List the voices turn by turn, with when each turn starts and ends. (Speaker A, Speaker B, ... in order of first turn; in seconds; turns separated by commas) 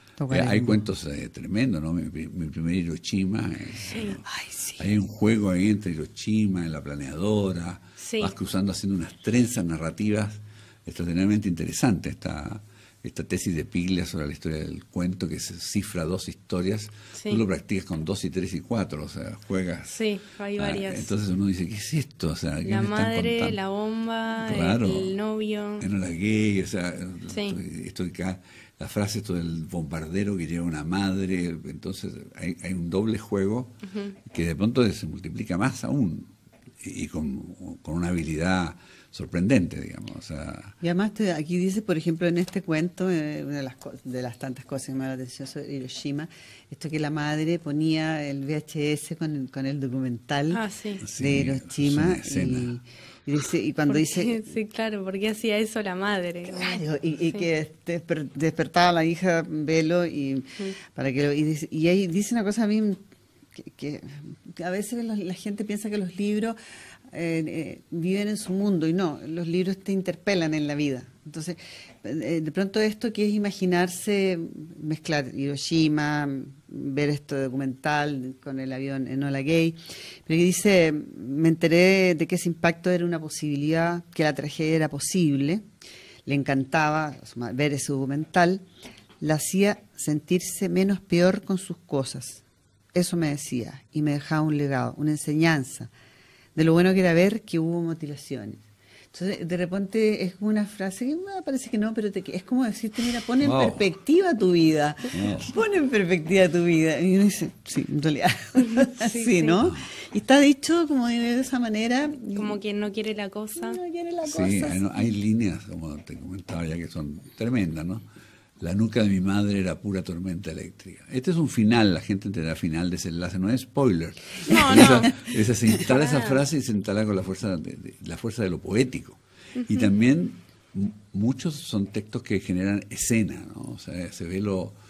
Speaker A: 0.2-0.8, Speaker B: 0.3-4.2, Speaker C: 3.9-4.2, Speaker A: 4.3-4.9, Speaker B: 4.8-20.1, Speaker C: 8.0-8.3, Speaker C: 17.2-17.4, Speaker C: 19.9-21.1, Speaker B: 20.6-23.6, Speaker C: 22.6-25.9, Speaker B: 24.4-25.1, Speaker B: 25.8-40.8, Speaker C: 27.3-27.6, Speaker C: 33.9-34.1, Speaker A: 40.8-54.5, Speaker C: 50.5-51.0, Speaker B: 51.0-52.7, Speaker C: 53.9-56.8, Speaker A: 56.5-63.0, Speaker A: 63.6-66.6, Speaker A: 67.1-85.7, Speaker A: 86.3-88.7, Speaker A: 89.2-92.4, Speaker A: 92.9-95.9, Speaker A: 96.5-112.6, Speaker B: 103.4-103.8, Speaker B: 105.1-105.5, Speaker C: 108.7-109.6, Speaker C: 112.3-113.8, Speaker A: 113.6-114.9, Speaker B: 114.2-118.0, Speaker B: 118.6-134.8, Speaker C: 124.5-125.3, Speaker C: 125.8-126.4, Speaker C: 129.6-129.9